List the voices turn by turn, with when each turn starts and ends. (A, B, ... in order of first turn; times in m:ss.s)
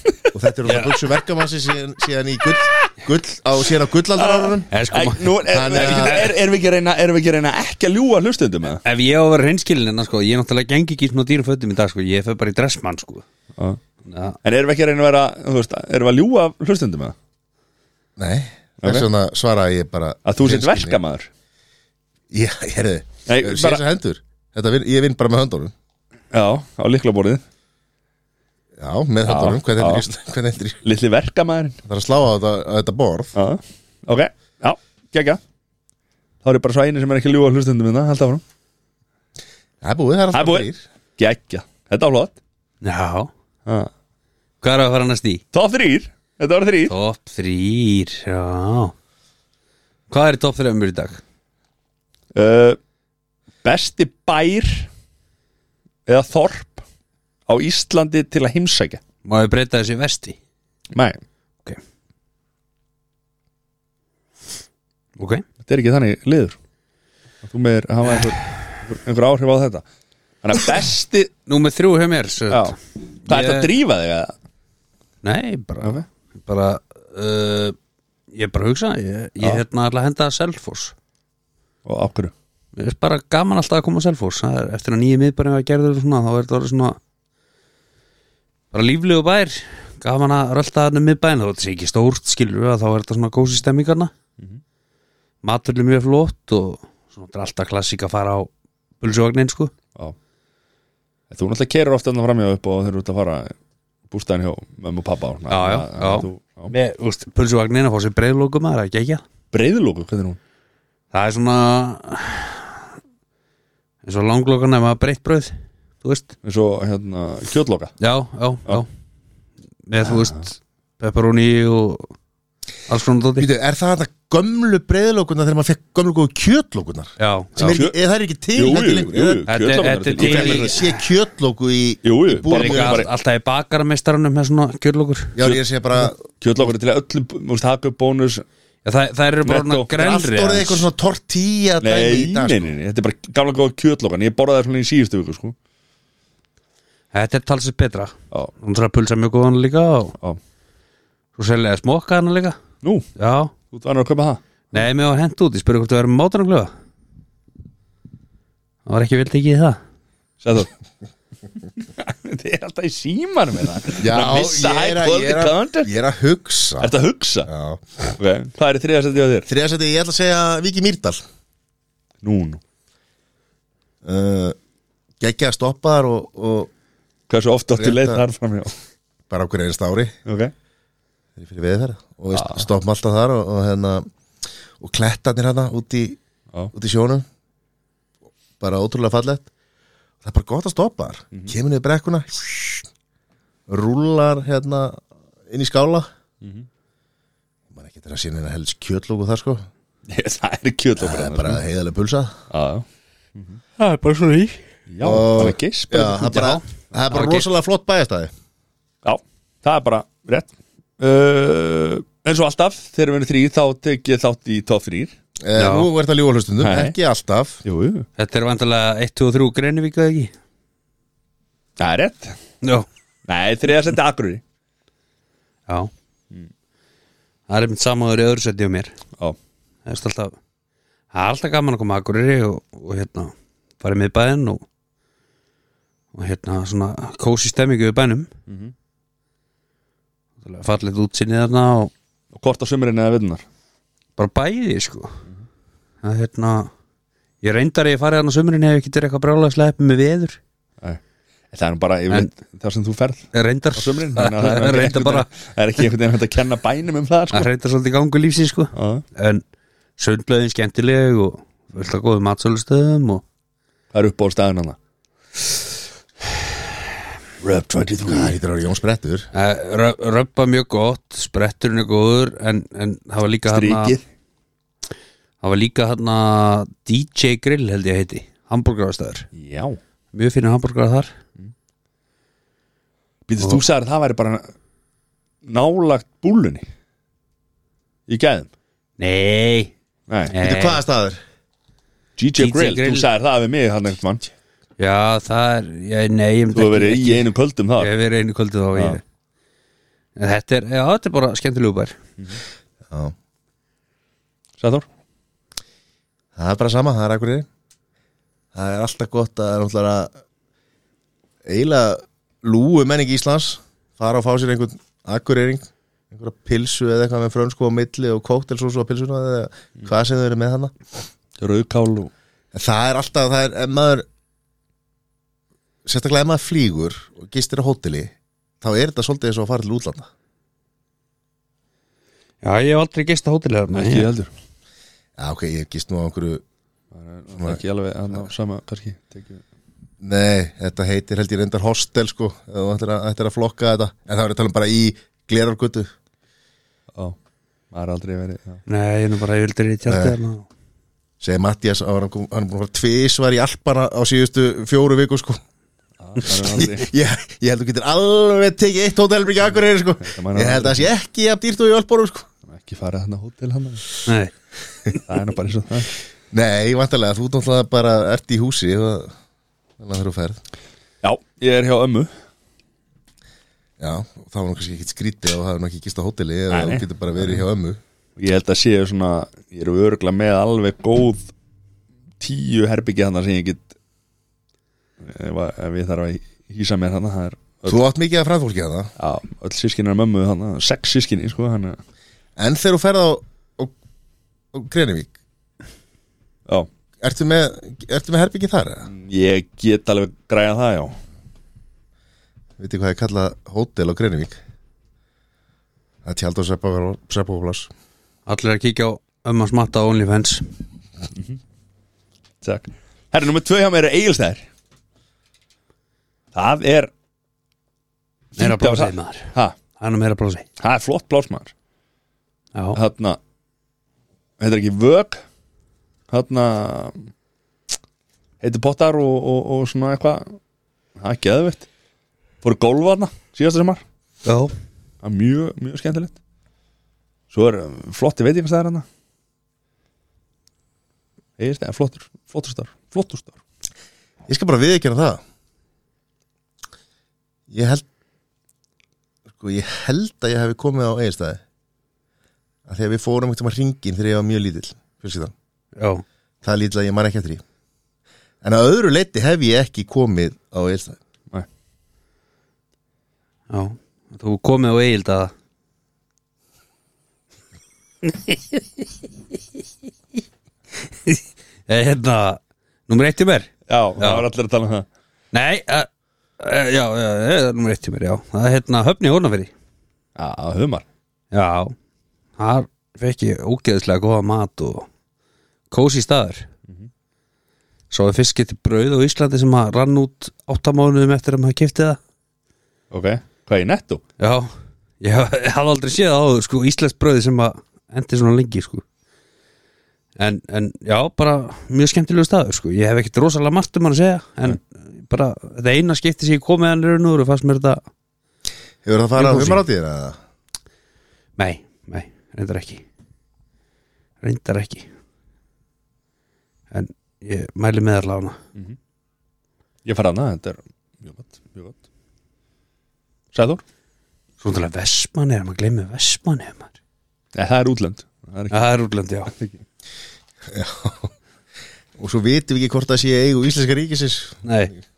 0:00.3-0:04.7 A
0:04.2-0:08.8 B
0:04.7-0:06.2 C
0:05.5-0:06.3 A
0:08.8-0:13.2 C
0:14.0-0:14.4 C
0:14.4-0:17.1 B
0:18.2-0:21.0 A
0:18.8-0:19.1 B
0:20.2-0:21.3 B
0:22.3-0:25.7 A
0:23.2-0:23.8 B
0:26.3-0:27.4 B
0:28.8-0:30.8 A
0:29.2-0:30.0 B
0:30.8-0:31.8 B
0:31.8-0:33.3 A
0:33.3-0:35.4 B
0:36.4-0:38.4 B
0:39.8-0:40.8 A
0:40.3-0:42.4 B
0:42.8-0:43.3 C
0:44.6-0:45.4 C
0:45.5-0:46.9 B
0:46.9-0:48.9 C
0:50.1-0:51.2 C
0:52.3-0:52.8 B
0:53.6-0:54.9 B
0:56.1-0:56.8 B
0:57.5-0:59.0 B
0:59.2-1:00.4 C
1:00.9-1:01.2 B
1:05.2-1:05.4 C
1:05.6-1:06.6 B
1:07.4-1:09.8 B
1:10.4-1:11.3 B
1:11.5-1:12.7 C
1:12.5-1:14.3 B
1:13.2-1:13.7 C
1:15.2-1:17.8 C
1:18.3-1:20.9 C
1:21.8-1:22.3 B
1:22.8-1:27.0 C
1:28.7-1:34.1 C
1:35.4-1:39.7 C
1:41.3-1:43.5 B
1:44.1-1:46.7 B
1:45.5-1:49.2 C
1:49.5-1:50.4 B
1:51.1-1:52.8 C
1:54.0-1:56.3 C
1:56.4-1:57.9 B
1:58.0-1:58.9 C
1:59.9-2:02.1 C
2:02.9-2:03.5 C
2:03.4-2:09.4 A
2:07.2-2:07.8 C
2:07.6-2:08.0 B
2:08.6-2:10.8 B
2:09.5-2:11.0 C
2:10.2-2:13.0 A
2:12.0-2:13.1 B
2:12.5-2:15.4 C
2:15.4-2:16.2 A
2:15.4-2:18.4 B
2:18.8-2:20.9 C
2:19.4-2:19.9 B
2:20.0-2:22.7 A
2:21.8-2:25.5 B
2:27.1-2:30.2 C
2:31.4-2:32.6 C
2:33.2-2:33.5 C
2:33.7-2:34.4 B
2:34.7-2:36.7 C
2:38.8-2:39.8 C
2:40.4-2:40.7 B
2:41.8-2:45.9 B
2:44.0-2:46.9 A
2:46.8-2:47.5 B
2:47.5-2:47.8 A
2:48.1-2:49.5 B
2:49.5-2:51.2 A
2:52.2-2:52.6 B
2:54.0-2:54.6 A
2:55.2-2:56.7 A
2:57.3-2:58.7 B
2:57.7-2:58.2 A
2:59.3-3:00.2 A
3:00.3-3:00.5 B
3:01.4-3:04.0 A
3:02.3-3:02.6 B
3:04.8-3:06.2 A
3:06.7-3:07.2 A
3:08.6-3:09.5 A
3:10.2-3:12.9 A
3:13.7-3:16.1 A
3:17.7-3:19.7 A
3:20.1-3:21.6 B
3:21.0-3:22.4 A
3:22.5-3:22.8 B
3:23.8-3:24.6 C
3:24.9-3:26.2 B
3:25.0-3:28.3 A
3:25.9-3:27.4 C
3:29.0-3:35.1 B
3:35.4-3:37.6 A
3:35.6-3:35.9 C
3:36.6-3:36.9 B
3:37.6-3:38.1 B
3:38.2-3:40.3 C
3:41.8-3:42.4 B
3:42.6-3:42.9 C
3:43.3-3:44.4 B
3:47.5-3:48.9 C
3:49.8-3:50.3 C
3:51.1-3:54.6 C
3:56.1-3:58.3 C
3:58.5-3:58.7 B
4:00.4-4:01.9 C
4:02.3-4:03.4 B
4:04.2-4:05.2 C
4:06.0-4:06.7 C
4:07.4-4:10.4 C
4:11.5-4:17.5 B
4:13.3-4:15.3 C
4:17.3-4:19.4 C
4:18.7-4:19.0 B
4:20.0-4:23.2 C
4:23.9-4:24.8 B
4:27.4-4:28.4 B
4:28.0-4:29.3 A
4:29.3-4:33.9 C
4:33.5-4:34.0 B
4:35.4-4:39.3 C
4:39.3-4:39.8 B
4:40.1-4:41.1 C
4:43.3-4:44.5 B
4:45.4-4:46.6 B
4:48.1-4:48.5 B
4:49.0-4:49.7 C
4:50.1-4:50.3 B
4:50.3-4:50.8 C
4:50.4-4:51.2 A
4:52.2-4:54.3 B
4:52.4-4:53.0 C
4:54.8-4:57.2 C
4:56.5-4:57.9 B
4:57.8-4:59.0 C
4:58.7-4:59.0 B
5:00.2-5:02.0 C
5:04.6-5:04.9 B
5:06.4-5:07.5 A
5:08.5-5:10.1 A
5:11.4-5:20.7 A
5:21.4-5:22.1 B
5:22.5-5:24.0 A
5:25.8-5:30.1 A
5:32.4-5:34.1 C
5:33.7-5:34.3 B
5:35.2-5:36.4 A
5:36.9-5:39.4 B
5:40.0-5:45.9 A
5:47.7-5:48.6 B
5:48.7-5:50.5 C
5:49.8-5:50.1 A
5:51.2-5:55.4 A
5:56.0-5:56.9 B
5:56.3-6:02.3 A
6:00.0-6:00.9 B
6:02.5-6:03.9 B
6:04.0-6:04.3 C
6:05.0-6:05.9 B
6:06.3-6:09.1 A
6:09.8-6:10.4 A
6:11.0-6:12.1 B
6:13.8-6:17.8 A
6:16.5-6:17.4 B
6:18.2-6:21.3 B
6:22.2-6:23.6 B
6:25.0-6:27.8 B
6:27.6-6:28.9 A
6:29.0-6:31.8 B
6:32.4-6:33.7 A
6:34.5-6:35.1 A
6:37.0-6:38.9 A
6:38.9-6:41.0 B
6:42.6-6:44.4 A
6:46.0-6:47.7 A
6:48.3-6:50.5 C
6:52.4-6:54.4 B
6:56.3-6:56.9 B
6:58.3-6:59.5 B
6:58.4-7:00.4 C
7:00.6-7:01.5 B
7:02.5-7:02.8 C
7:02.7-7:03.2 B
7:04.4-7:05.2 B
7:06.1-7:07.1 B
7:08.4-7:10.4 B
7:11.0-7:11.7 B
7:12.4-7:13.8 B
7:14.2-7:14.5 C
7:15.0-7:16.2 B
7:17.3-7:18.8 B
7:21.4-7:23.4 B
7:24.3-7:25.2 A
7:27.5-7:27.8 A
7:29.4-7:31.4 A
7:32.6-7:35.3 A
7:35.8-7:36.0 C
7:36.4-7:37.4 A
7:38.4-7:41.0 A
7:43.5-7:45.3 C
7:48.1-7:48.6 C
7:50.9-7:54.2 C
7:53.7-7:54.9 B
7:55.3-7:55.9 C
7:56.4-7:59.5 C
8:00.2-8:00.8 B
8:01.3-8:01.7 C
8:02.4-8:04.9 C
8:05.7-8:06.4 C
8:07.9-8:12.0 C
8:12.9-8:14.0 B
8:14.2-8:18.8 C
8:20.2-8:27.8 C
8:28.8-8:30.2 A
8:29.2-8:29.6 C
8:31.4-8:32.8 C
8:34.2-8:34.9 C
8:36.7-8:38.4 C
8:39.8-8:41.8 B
8:43.3-8:43.6 B
8:44.4-8:46.7 C
8:47.3-8:48.7 B
8:48.5-8:49.3 C
8:49.3-8:49.6 B
8:50.5-8:51.1 A
8:52.0-8:54.4 A
8:54.4-8:54.7 C